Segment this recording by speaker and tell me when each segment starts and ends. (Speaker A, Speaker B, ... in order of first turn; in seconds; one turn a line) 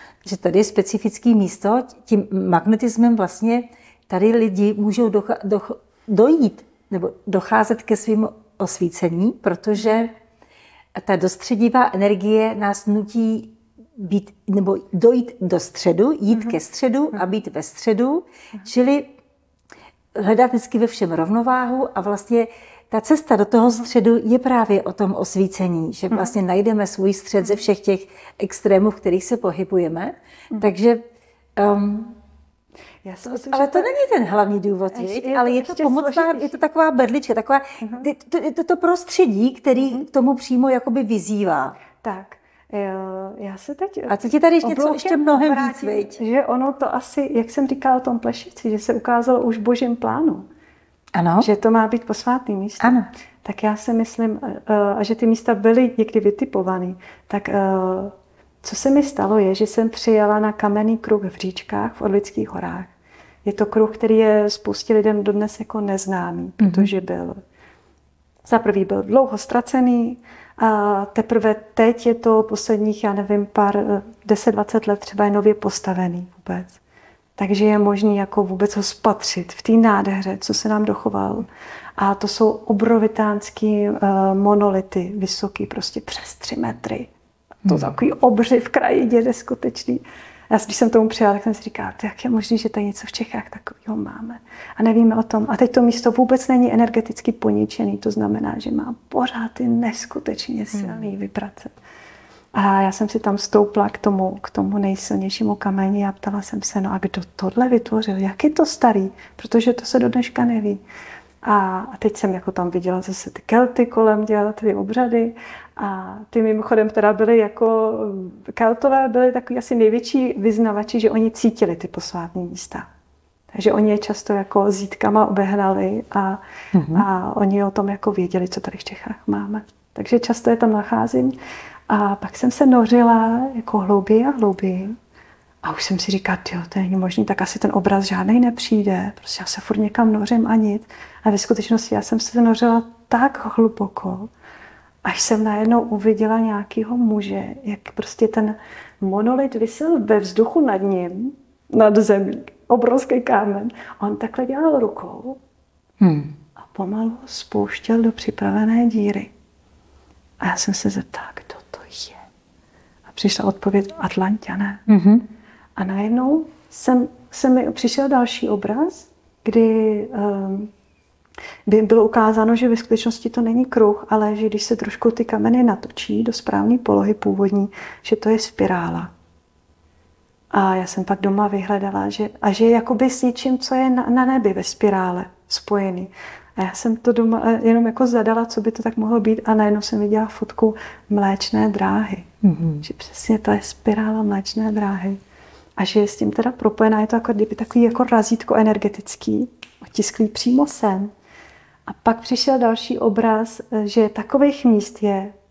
Speaker A: 0.2-10.1
Speaker A: 11.0-19.1
Speaker B: 16.3-16.6
Speaker A: 20.1-31.0
Speaker A: 31.6-32.2
Speaker B: 33.0-34.0
Speaker A: 33.3-41.8
Speaker B: 34.9-36.6
Speaker B: 37.8-38.1
Speaker B: 39.7-40.0
Speaker B: 42.0-50.4
Speaker A: 44.1-46.2
Speaker A: 51.1-51.5
Speaker B: 51.4-62.9
Speaker A: 52.8-53.1
Speaker B: 63.4-67.4
Speaker A: 66.6-66.9
Speaker B: 68.4-76.8
Speaker B: 77.4-87.1
Speaker A: 87.7-87.9
Speaker B: 87.7-101.7
Speaker A: 100.8-101.0
Speaker B: 102.5-110.8
Speaker B: 111.4-122.8
Speaker B: 123.5-131.3
Speaker A: 126.7-127.0
Speaker B: 131.9-135.0
Speaker B: 135.6-144.3
Speaker B: 145.0-155.4
Speaker A: 156.0-156.3
Speaker B: 156.6-159.3
Speaker B: 160.4-162.2
Speaker B: 163.1-164.8
Speaker A: 164.9-165.2
Speaker B: 165.8-170.7
Speaker B: 171.7-179.1
Speaker B: 180.5-192.3
Speaker A: 192.4-192.8
Speaker B: 192.8-195.2
Speaker B: 195.8-201.1
Speaker B: 201.9-205.3